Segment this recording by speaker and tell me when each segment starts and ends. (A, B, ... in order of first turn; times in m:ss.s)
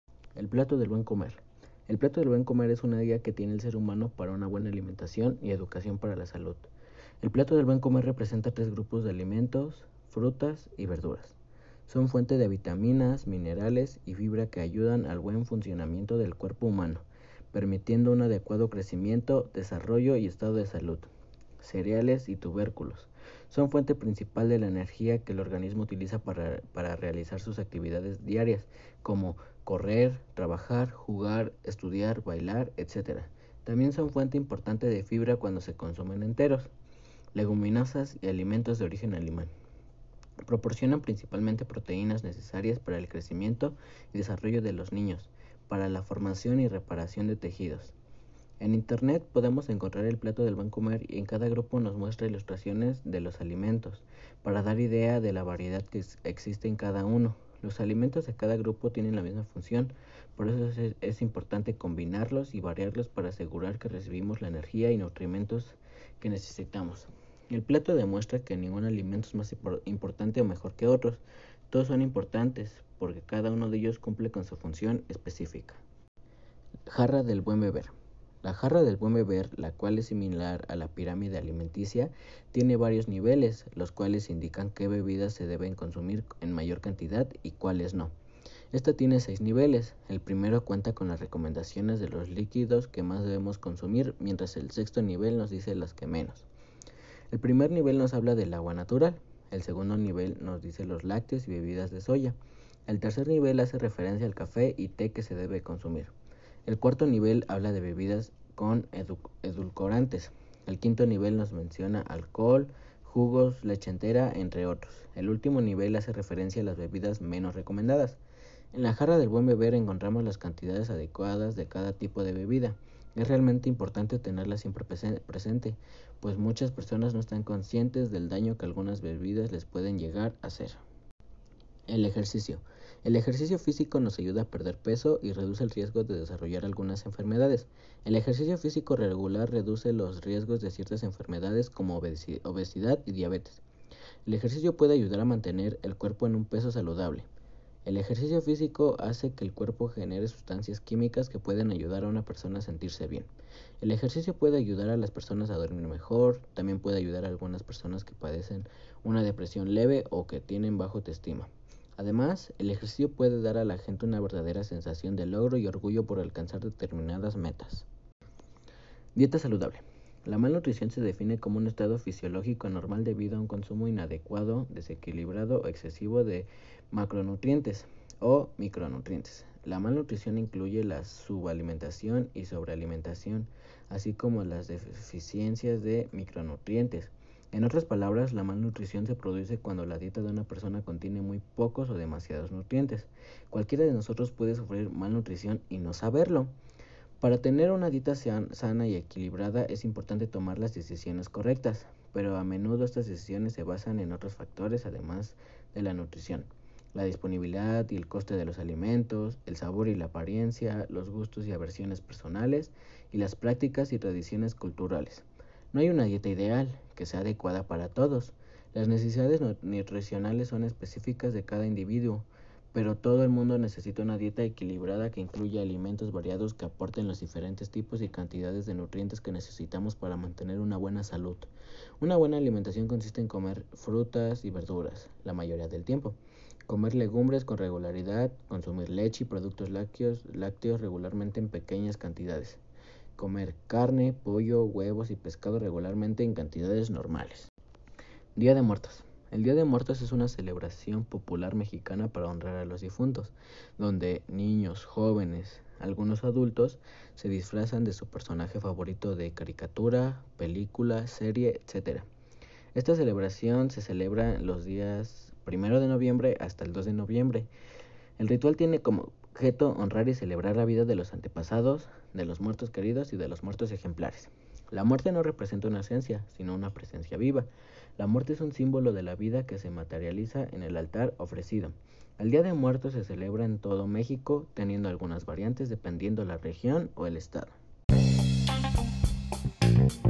0:00.4-0:06.7 A
0:07.2-0:21.1 A
0:21.6-0:36.7 A
0:37.4-0:39.5 A
0:40.4-0:48.0 A
0:48.6-1:15.8 A
1:16.9-1:17.9 A
1:18.4-1:28.1 A
1:28.7-1:36.5 A
1:37.3-1:42.4 A
1:42.9-1:46.1 A
1:46.7-1:58.2 A
1:58.7-2:10.8 A
2:11.9-2:23.6 A
2:24.3-2:27.3 A
2:27.8-2:33.3 A
2:33.8-2:47.9 A
2:49.2-3:16.5 A
3:17.2-4:02.6 A
4:03.2-4:07.5 A
4:08.4-4:22.1 A
4:22.8-4:27.5 A
4:28.2-4:47.6 A